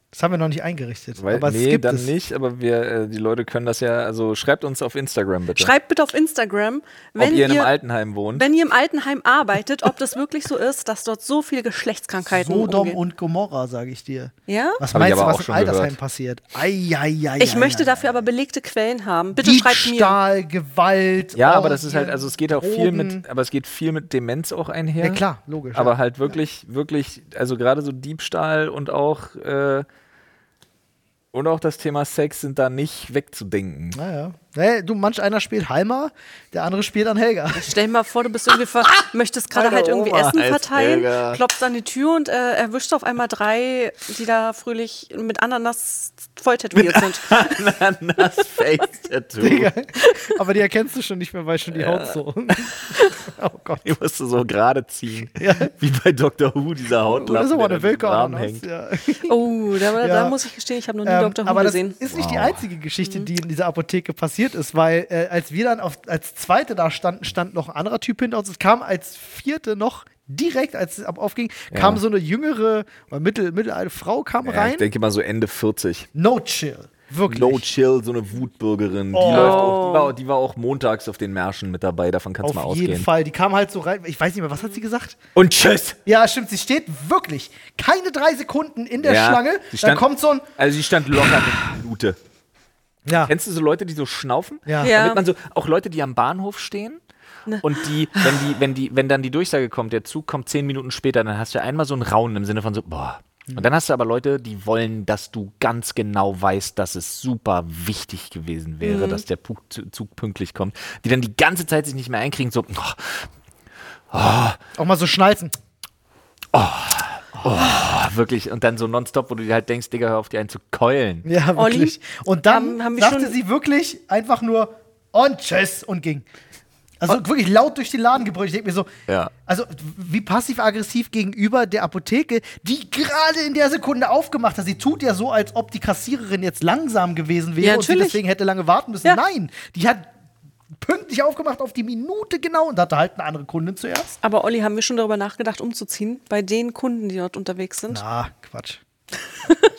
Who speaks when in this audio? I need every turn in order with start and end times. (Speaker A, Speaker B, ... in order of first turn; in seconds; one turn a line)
Speaker A: 0.1-2.1
Speaker B: 1.2-5.7
Speaker C: 5.5-7.7
Speaker B: 7.2-8.5
Speaker C: 8.3-13.0
Speaker A: 12.3-18.0
Speaker C: 14.5-14.8
Speaker B: 14.9-15.9
Speaker C: 17.4-20.2
Speaker A: 19.3-23.2
Speaker B: 21.3-29.9
Speaker A: 25.0-25.9
Speaker B: 31.3-34.0
Speaker A: 33.9-37.7
Speaker C: 37.5-47.4
Speaker B: 39.5-41.4
Speaker B: 46.7-49.7
Speaker A: 49.4-53.9
Speaker C: 50.0-50.3
Speaker B: 51.7-52.2
Speaker B: 53.8-58.6
Speaker A: 55.4-55.7
Speaker A: 57.1-59.4
Speaker C: 59.3-62.0
Speaker A: 60.0-60.4
Speaker A: 61.0-74.8
Speaker B: 62.0-62.6
Speaker C: 63.0-63.3
Speaker B: 71.7-72.0
Speaker B: 74.4-76.1
Speaker A: 76.1-77.6
Speaker B: 77.3-83.1
Speaker A: 79.1-79.8
Speaker C: 79.2-80.1
Speaker A: 82.4-85.2
Speaker B: 85.3-86.0
Speaker A: 86.0-90.4
Speaker B: 89.0-90.0
Speaker B: 90.6-92.2
Speaker A: 93.0-93.3
Speaker B: 93.2-97.0
Speaker A: 94.7-94.9
Speaker C: 94.8-95.2
Speaker C: 97.5-98.3
Speaker B: 97.6-113.3
Speaker C: 108.8-109.2
Speaker B: 114.1-114.6
Speaker A: 114.8-115.5
Speaker B: 116.5-121.3
Speaker A: 117.3-117.7
Speaker A: 121.2-126.2
Speaker C: 121.5-123.3
Speaker A: 127.0-128.9
Speaker B: 129.1-129.3
Speaker A: 129.4-140.1
Speaker C: 137.6-138.2
Speaker A: 140.8-144.1
Speaker C: 144.2-148.0
Speaker A: 147.9-148.8